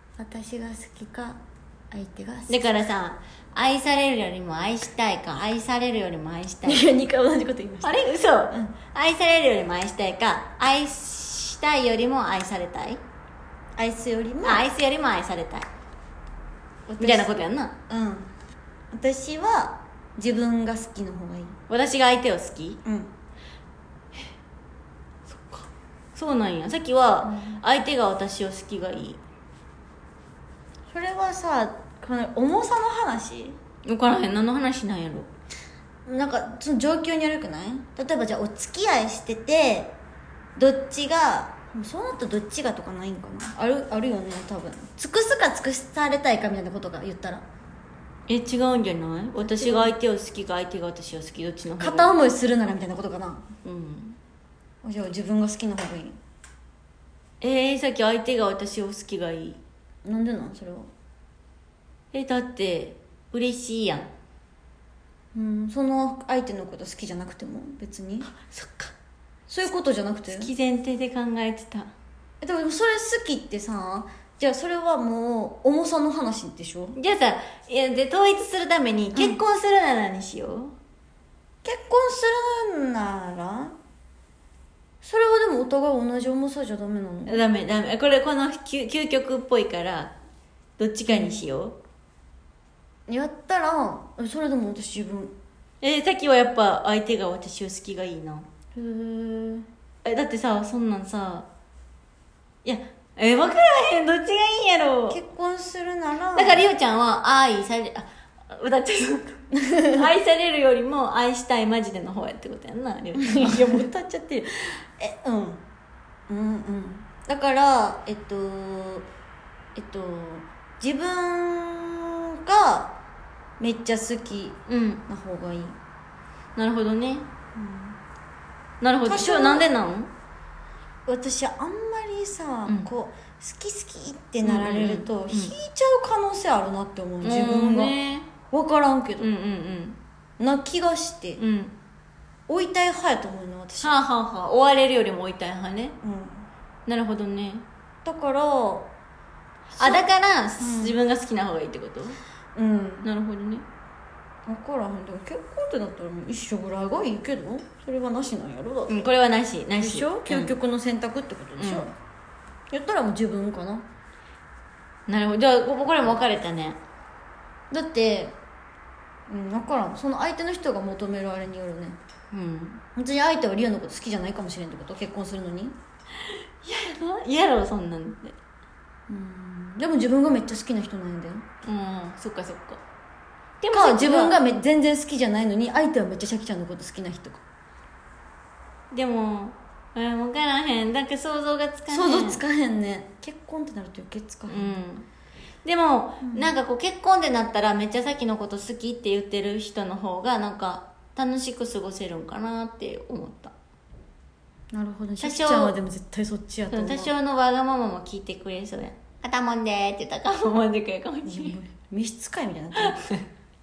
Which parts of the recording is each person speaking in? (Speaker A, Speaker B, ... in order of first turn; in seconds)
Speaker A: 0.2-1.4, 1.9-2.7, 6.6-8.0, 13.8-14.7, 17.0-17.4, 17.9-18.3, 18.9-21.6, 22.8-23.1, 27.2-27.6, 30.9-33.6, 36.0-39.9, 40.5-47.4, 49.4-50.0, 51.8-53.5, 54.8-56.2, 60.0-60.9, 65.3-68.3, 69.5-70.5, 72.4-77.0, 79.1-79.4, 81.6-83.7, 85.0-87.4, 91.1-91.4, 93.1-95.3, 98.8-99.7, 105.1-106.6, 109.5-110.1, 113.2-115.6, 116.3-119.1, 119.7-122.9, 123.6-125.8, 127.5-128.0, 129.0-129.7, 131.1-138.0, 138.5-139.3, 140.4-141.4, 142.5-143.9, 146.0-146.5, 148.0-148.9, 149.8-150.0, 150.6-150.9, 152.5-153.1, 154.5-159.1, 159.7-161.9, 162.7-163.9, 167.7-168.4, 169.3-172.0, 172.9-175.8, 179.1-181.5, 183.7-187.4, 191.9-194.7, 196.2-196.5, 204.7-207.1, 211.2-213.0
Speaker B: 2.5-6.8, 7.8-13.0, 14.4-15.7, 16.9-17.7, 21.7-22.8, 25.3-29.2, 33.8-35.3, 48.3-52.1, 53.6-54.2, 57.4-59.6, 62.1-64.1, 68.3-68.9, 70.3-71.9, 77.0-80.7, 87.2-90.1, 90.8-91.8, 95.8-98.5, 100.0-101.5, 102.6-105.2, 106.3-109.4, 109.9-113.9, 124.7-125.0, 126.5-127.3, 128.8-130.1, 134.4-135.6, 137.2-138.3, 139.2-140.0, 141.4-141.7, 143.8-145.9, 146.8-147.6, 149.8-152.2, 153.0-153.6, 158.9-160.5, 161.6-161.9, 165.1-166.8, 172.3-172.8, 176.6-178.3, 181.6-182.8, 183.6-184.4, 188.9-192.4, 194.5-195.1, 195.6-203.5, 205.2-205.8, 206.7-211.6, 212.8-213.2